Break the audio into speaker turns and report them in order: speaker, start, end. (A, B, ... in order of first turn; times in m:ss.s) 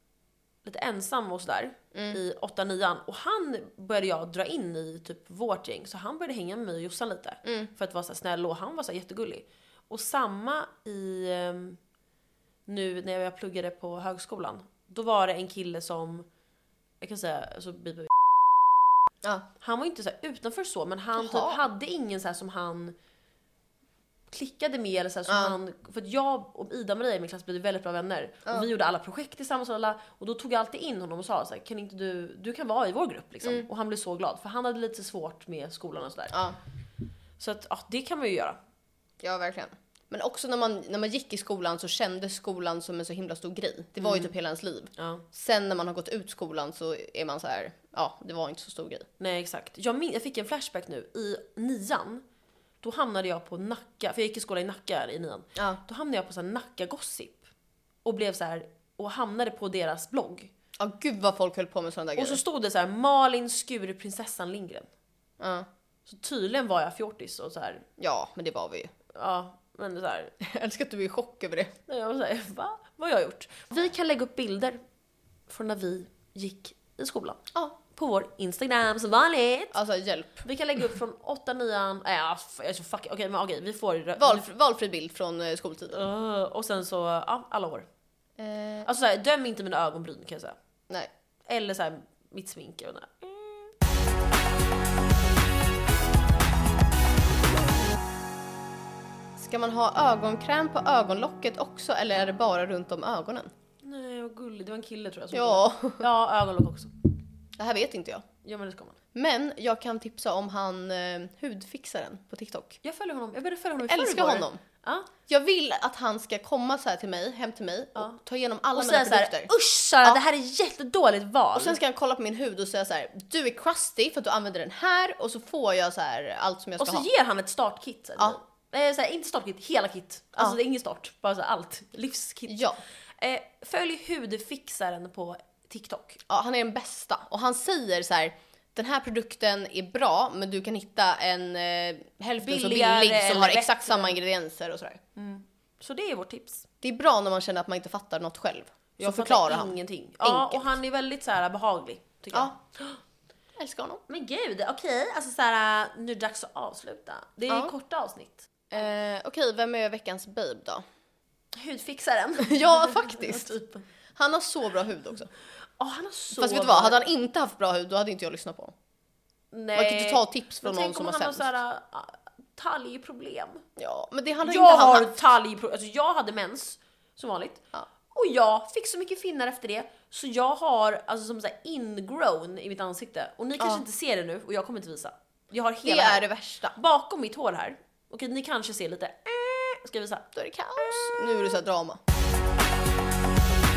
0:00.6-0:11.8 A
0:01.9-0:02.2 B
0:07.4-0:07.7 B
0:12.7-0:16.3 A
0:17.0-0:18.1 A
0:19.6-0:23.0 A
0:21.2-0:21.6 B
0:24.3-0:36.4 A
0:25.3-0:25.6 B
0:36.3-0:36.6 B
0:37.4-0:38.6 A
0:39.2-0:49.1 B
0:44.0-0:44.3 A
0:45.0-0:45.2 A
0:49.2-0:52.2 A
0:52.8-0:57.5 A
0:58.0-1:00.5 A
1:00.8-1:02.4 B
1:02.2-1:04.9 A
1:05.4-1:05.7 B
1:06.1-1:07.8 A
1:08.0-1:08.9 B
1:09.1-1:10.3 A
1:10.4-1:11.7 B
1:11.9-1:14.8 A
1:15.5-1:19.8 A
1:19.7-1:20.4 B
1:20.4-1:24.5 A
1:24.2-1:26.0 B
1:25.9-1:27.9 A
1:28.4-1:28.9 B
1:28.8-1:30.6 A
1:31.5-1:33.8 A
1:39.4-1:43.5 B
1:43.8-1:46.9 A
1:45.3-1:46.0 B
1:47.6-1:48.3 B
1:48.4-1:49.0 A
1:49.2-1:52.8 B
1:52.8-1:55.1 A
1:53.8-1:54.6 B
1:55.3-1:59.5 B
1:58.7-2:01.8 A
2:01.6-2:07.1 B
2:06.8-2:16.2 A
2:12.5-2:12.8 B
2:16.3-2:25.0 B
2:22.4-2:24.2 A
2:25.2-2:26.6 A
2:26.8-2:30.7 B
2:29.0-2:33.0 A
2:32.3-2:32.6 B
2:33.6-2:34.0 B
2:34.1-2:38.5 A
2:38.7-2:40.8 B
2:41.5-2:43.8 A
2:42.4-2:43.6 B
2:44.2-2:45.3 B
2:45.8-2:47.1 A
2:46.4-2:48.7 B
2:49.5-2:53.6 A
2:49.8-2:51.5 B
2:53.8-2:55.2 B
2:54.4-3:10.3 A
3:05.8-3:06.8 B
3:10.3-3:12.0 B
3:10.8-3:11.4 A